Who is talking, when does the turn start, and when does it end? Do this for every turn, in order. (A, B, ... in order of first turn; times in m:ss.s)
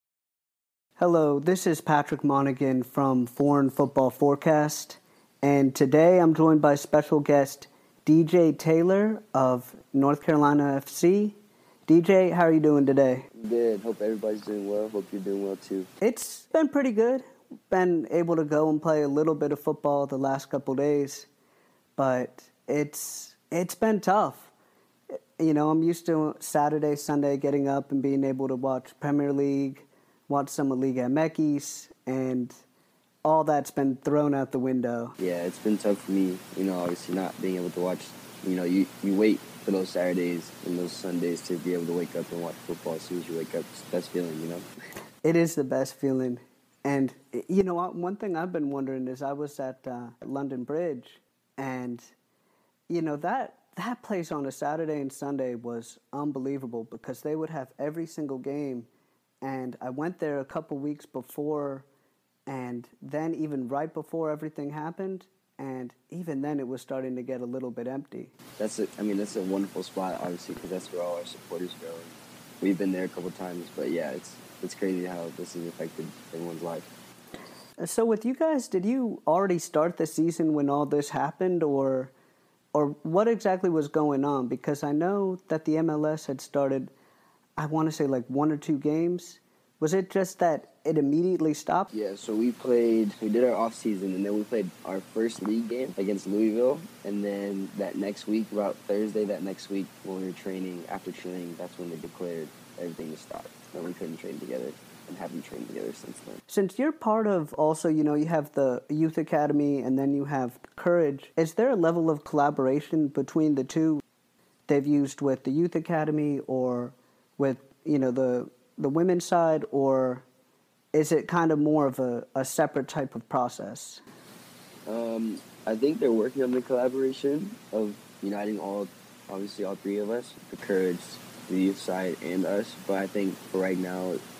0:01.0-0:13.3 A
0:13.3-0:15.9 B
0:16.0-0:21.3 A
0:22.0-0:24.5 A
0:25.4-0:32.6 A
0:33.2-0:35.2 A
0:35.2-0:44.7 B
0:45.2-0:52.1 A
0:52.9-0:58.9 A
0:59.4-1:01.9 A
1:02.5-1:08.3 A
1:08.6-1:16.9 B
1:17.8-1:22.1 A
1:22.7-1:26.9 A
1:27.6-1:31.9 A
1:31.9-1:46.4 B
1:46.5-1:54.0 A
1:54.7-2:00.2 A
2:00.9-2:04.0 A
2:04.9-2:14.2 B